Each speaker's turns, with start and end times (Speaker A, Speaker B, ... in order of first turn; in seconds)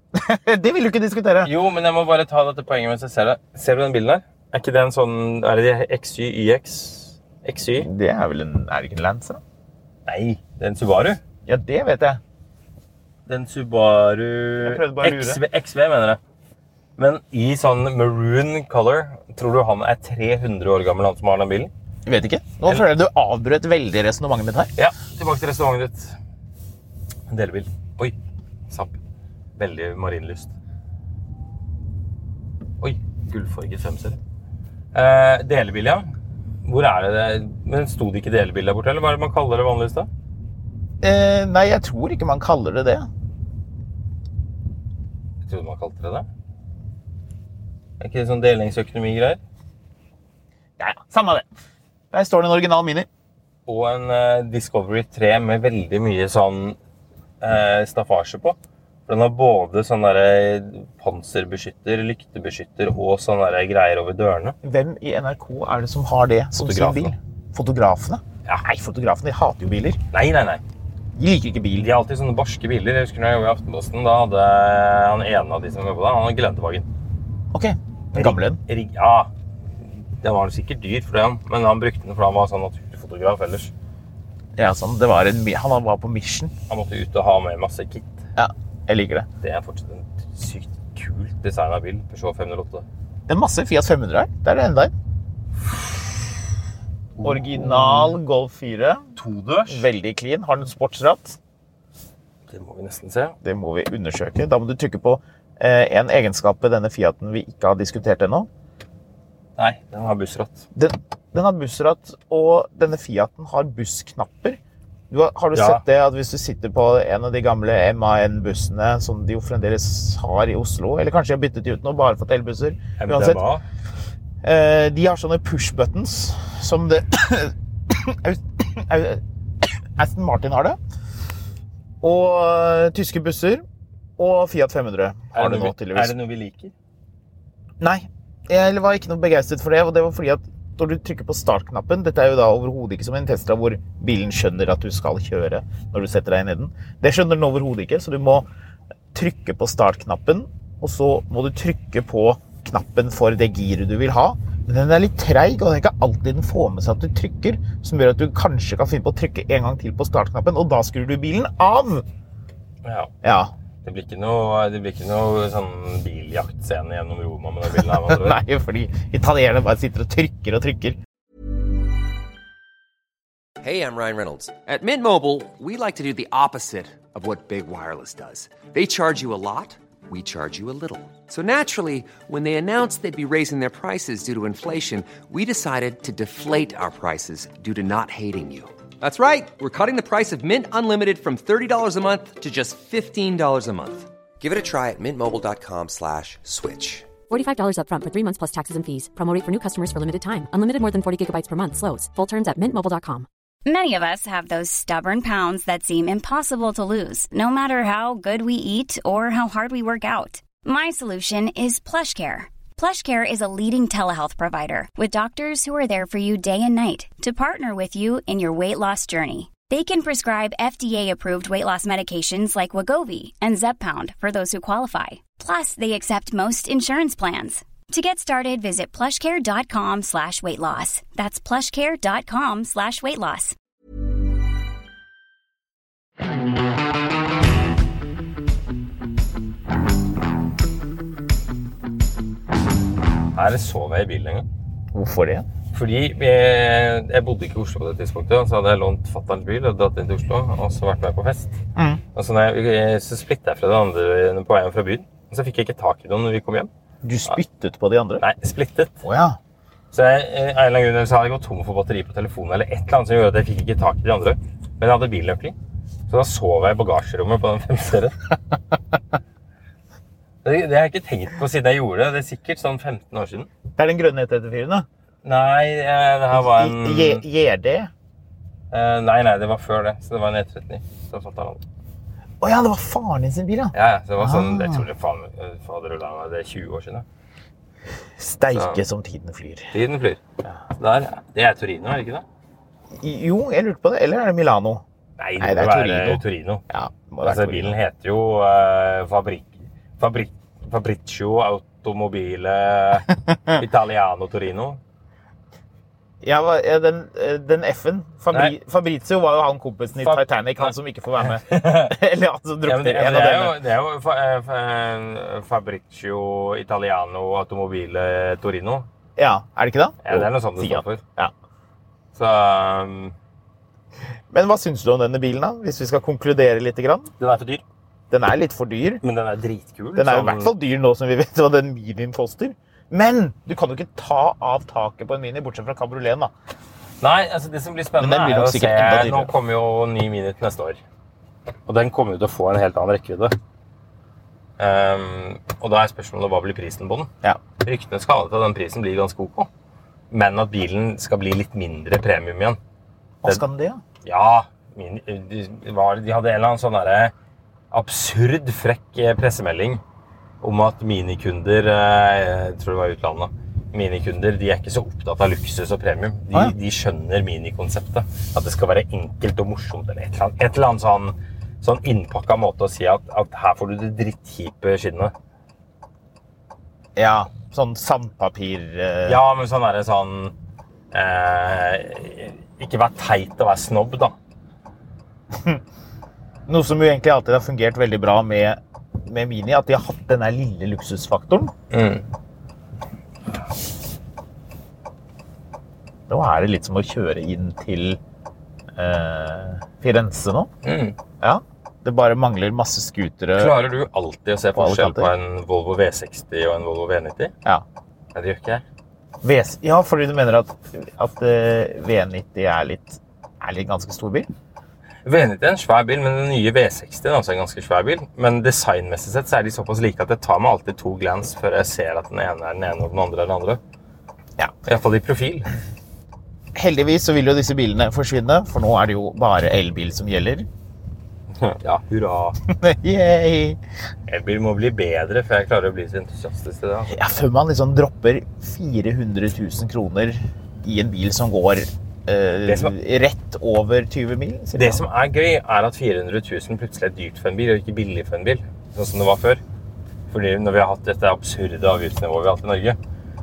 Speaker A: 0.1-1.5, 7.8-9.4, 11.4-12.2, 14.6-15.4, 22.1-24.7, 41.0-43.1, 50.8-51.5, 52.1-53.1, 64.6-70.0, 71.2-71.9, 77.5-78.6, 84.6-86.5, 88.4-89.3, 93.3-94.9, 97.2-99.1, 99.7-101.4, 103.4-108.5, 110.7-123.4, 124.4-130.8, 132.0-133.6, 134.2-136.1, 137.8-148.5, 149.1-162.1, 163.2-163.5, 167.8-171.0, 244.9-245.4, 251.8-252.0, 257.0-258.2, 259.0-259.4, 273.8-274.9, 276.3-277.9, 282.4-284.9, 288.2-289.7, 293.0-294.8, 295.4-297.8, 306.2-313.6, 319.2-321.3, 324.3-327.1, 328.1-329.0, 329.9-336.3, 338.0-339.3, 353.2-353.8, 376.9-379.2, 385.3-385.6, 386.5-391.5, 396.1-398.0, 398.8-400.5, 401.2-403.5, 404.5-405.1, 409.2-414.3, 426.5-430.5, 432.5-433.6, 436.9-444.8
Speaker B: 1.4-7.9, 10.1-11.2, 13.3-16.2, 17.0-21.7, 24.8-26.1, 27.3-28.1, 28.7-28.9, 29.6-30.5, 32.8-34.2, 34.9-36.1, 36.6-40.1, 45.4-46.3, 48.0-49.4, 53.6-56.8, 57.4-64.5, 66.6-67.1, 70.1-70.6, 71.8-76.9, 78.1-79.3, 79.8-83.7, 86.7-88.2, 89.4-92.8, 95.7-96.1, 97.2-98.2, 99.2-99.8, 102.5-103.3, 109.6-110.7, 115.5-115.8, 123.0-123.6, 135.3-136.7, 162.8-163.1, 163.8-168.4, 243.3-244.4, 245.7-251.6, 252.1-256.7, 258.2-259.0, 259.9-265.6, 266.1-268.2, 270.4-273.5, 275.2-277.2, 278.7-281.6, 283.7-287.0, 288.5-288.8, 289.7-290.2, 290.8-292.2, 295.2-296.6, 297.2-304.8, 310.0-310.7, 311.2-311.9, 312.6-318.9, 320.0-321.0, 322.1-323.1, 327.2-327.6, 329.0-330.5, 337.0-340.8, 341.7-343.3, 344.6-347.1, 347.6-349.5, 350.1-352.6, 354.0-357.1, 357.7-359.8, 360.4-375.1, 379.1-380.3, 380.9-384.1, 391.7-392.1, 400.6-400.9, 403.4-407.3, 408.1-408.6, 415.0-423.6, 424.6-425.5, 431.3-432.4, 434.1-437.0, 442.5-442.7, 444.6-449.4, 450.1-452.8
Speaker C: 173.6-197.1
Speaker D: 197.3-203.3
Speaker E: 203.6-233.6